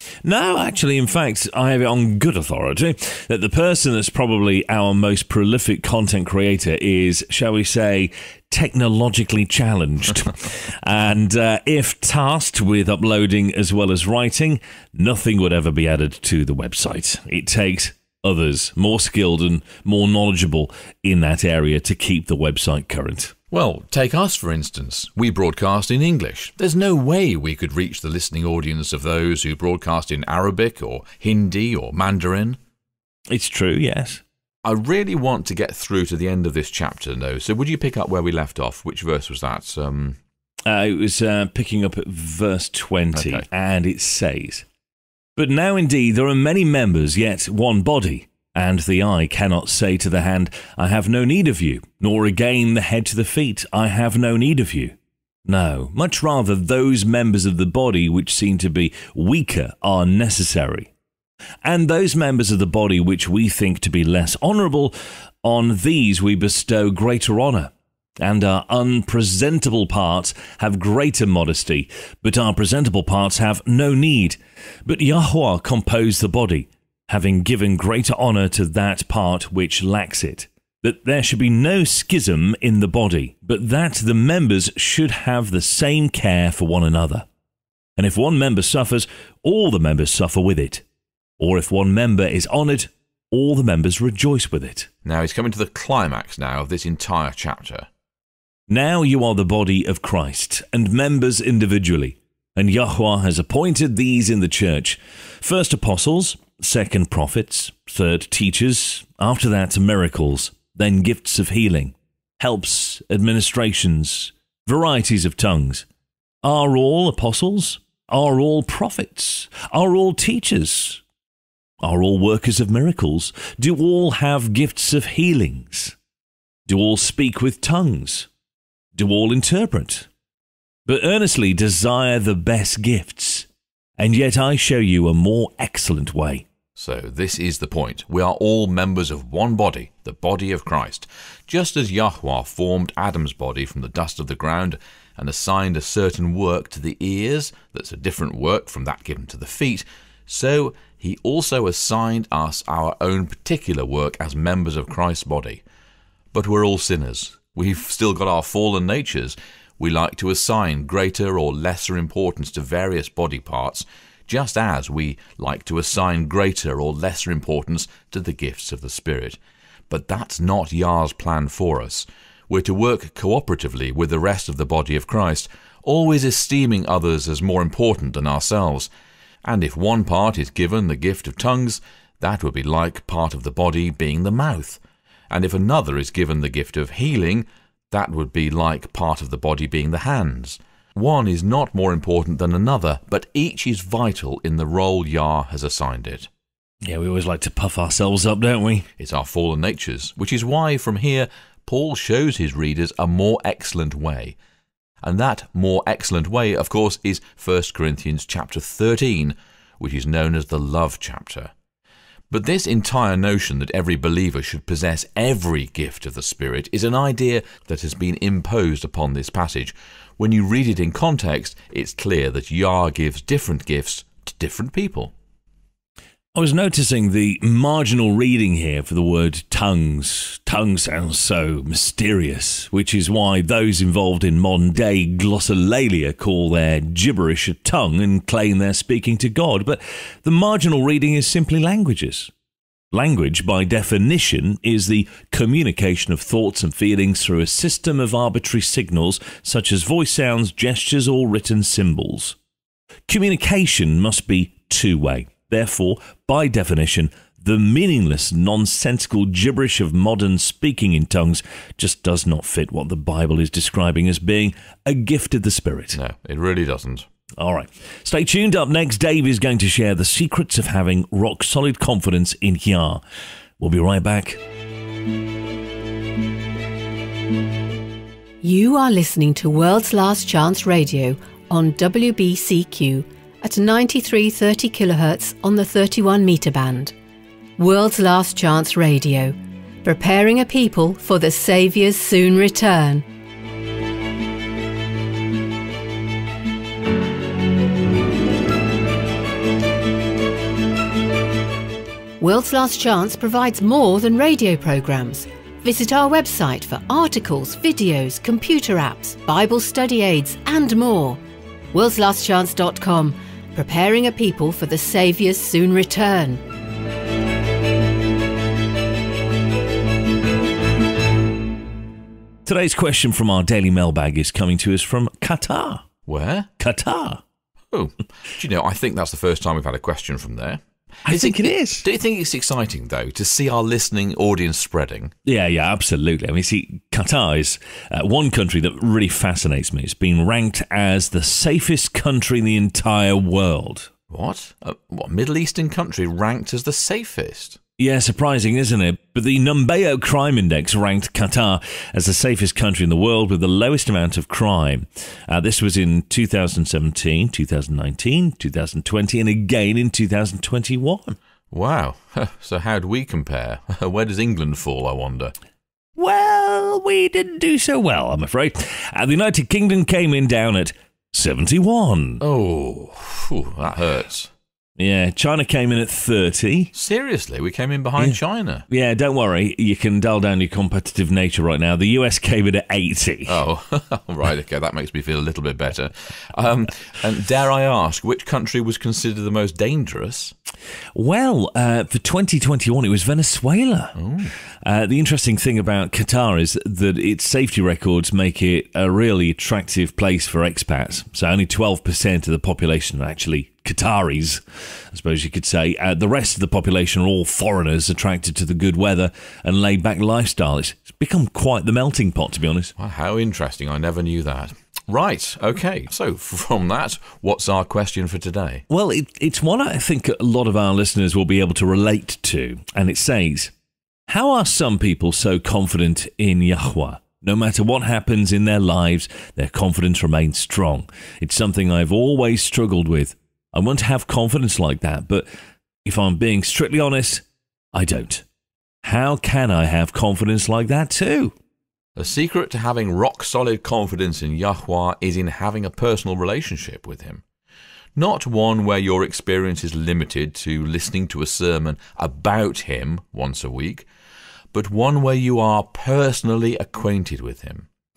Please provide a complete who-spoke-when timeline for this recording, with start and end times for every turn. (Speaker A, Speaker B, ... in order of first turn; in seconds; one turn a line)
Speaker A: 0.2-23.3
Speaker B: 23.5-32.6
Speaker A: 33.3-34.2
Speaker B: 34.6-40.2
Speaker A: 40.7-44.7
Speaker B: 43.1-43.5
Speaker A: 45.4-60.9
Speaker A: 61.6-87.3
Speaker A: 88.0-90.8
Speaker A: 91.4-94.9
Speaker B: 95.0-97.9
Speaker A: 98.7-115.9
Speaker A: 116.4-121.0
Speaker A: 121.8-126.0
Speaker A: 126.7-128.3
Speaker A: 128.9-130.1
Speaker A: 130.9-136.5
Speaker B: 136.8-155.6
Speaker B: 156.3-169.4
Speaker B: 169.9-178.9
Speaker B: 179.4-196.3
Speaker A: 196.8-198.9
Speaker B: 199.0-204.4
Speaker B: 205.0-211.5
Speaker B: 212.3-225.1
Speaker A: 226.3-242.3
Speaker A: 242.9-252.4
Speaker A: 253.1-266.0
Speaker B: 265.9-267.1
Speaker A: 267.4-273.0
Speaker A: 273.6-274.4
Speaker C: 278.4-286.9
Speaker C: 287.6-293.1
Speaker C: 302.2-311.2
Speaker C: 311.7-316.4
Speaker A: 322.4-325.9
Speaker B: 326.1-326.5
Speaker A: 326.6-327.2
Speaker B: 327.7-335.1
Speaker A: 331.1-331.9
Speaker A: 335.3-343.9
Speaker B: 344.1-347.6
Speaker A: 347.8-361.2
Speaker B: 361.5-365.3
Speaker A: 366.0-372.2
Speaker B: 372.2-374.3
Speaker A: 374.8-376.7
Speaker B: 376.7-378.6
Speaker A: 378.7-383.4
Speaker B: 383.3-390.3
Speaker A: 390.9-394.0
Speaker B: 394.0-394.3
Speaker A: 394.6-412.7
Speaker B: 412.8-418.6
Speaker A: 418.7-423.5
Speaker A: 424.1-435.3
Speaker A: 435.9-438.2
Speaker A: 438.8-441.3
Speaker B: 442.0-447.2
Speaker B: 448.0-453.9
Speaker B: 454.5-457.7